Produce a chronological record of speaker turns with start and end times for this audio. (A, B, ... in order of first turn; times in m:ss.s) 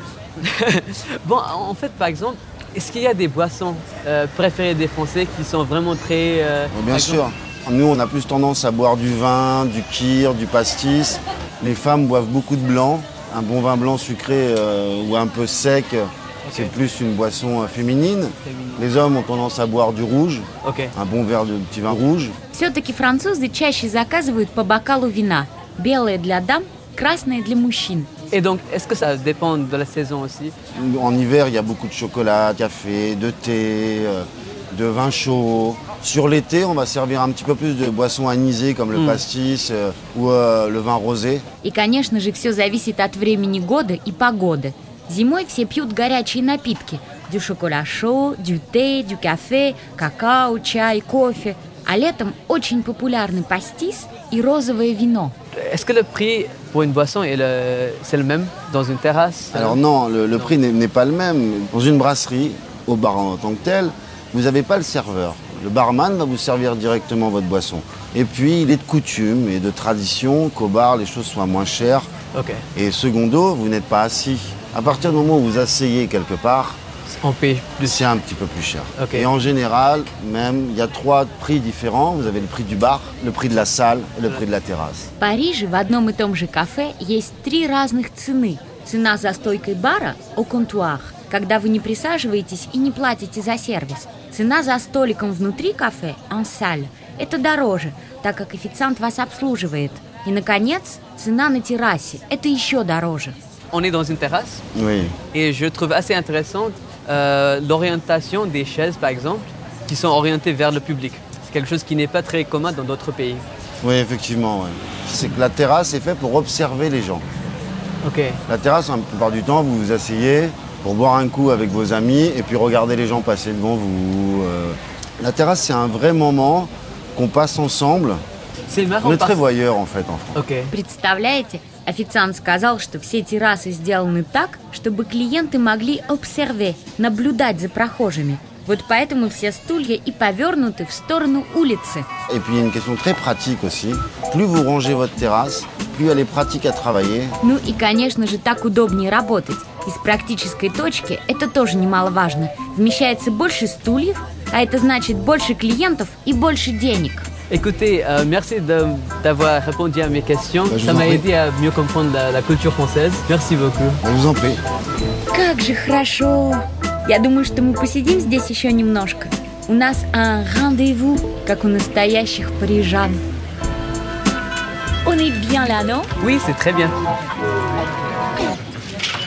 0:00.4-0:07.3 A
0:06.7-0:22.4 B
0:16.5-0:16.7 A
0:18.5-0:18.8 A
0:20.6-0:20.9 A
0:22.5-0:28.1 C
0:28.3-0:30.6 A
0:30.8-0:41.5 B
0:38.9-0:39.2 A
0:41.6-0:55.4 C
0:55.6-0:59.8 A
0:59.5-1:12.1 B
1:12.3-1:12.6 A
1:12.8-1:16.8 B
1:17.1-1:18.0 A
1:17.8-1:25.1 B
1:19.0-1:19.3 A
1:25.2-1:43.4 C
1:43.7-1:44.6 A
1:44.7-1:45.2 B
1:45.3-1:53.4 A
1:53.8-1:57.3 B
1:58.0-1:58.4 A
1:58.5-2:08.2 B
2:08.7-2:09.4 A
2:09.0-2:10.4 B
2:10.4-2:10.7 A
2:10.7-2:22.1 C
2:22.3-2:27.4 B
2:27.4-2:37.3 C
2:37.5-2:44.0 A
2:40.7-2:41.3 B
2:44.0-2:44.6 B
2:45.3-2:53.2 C
2:55.0-2:56.1 C
2:56.2-2:57.0 A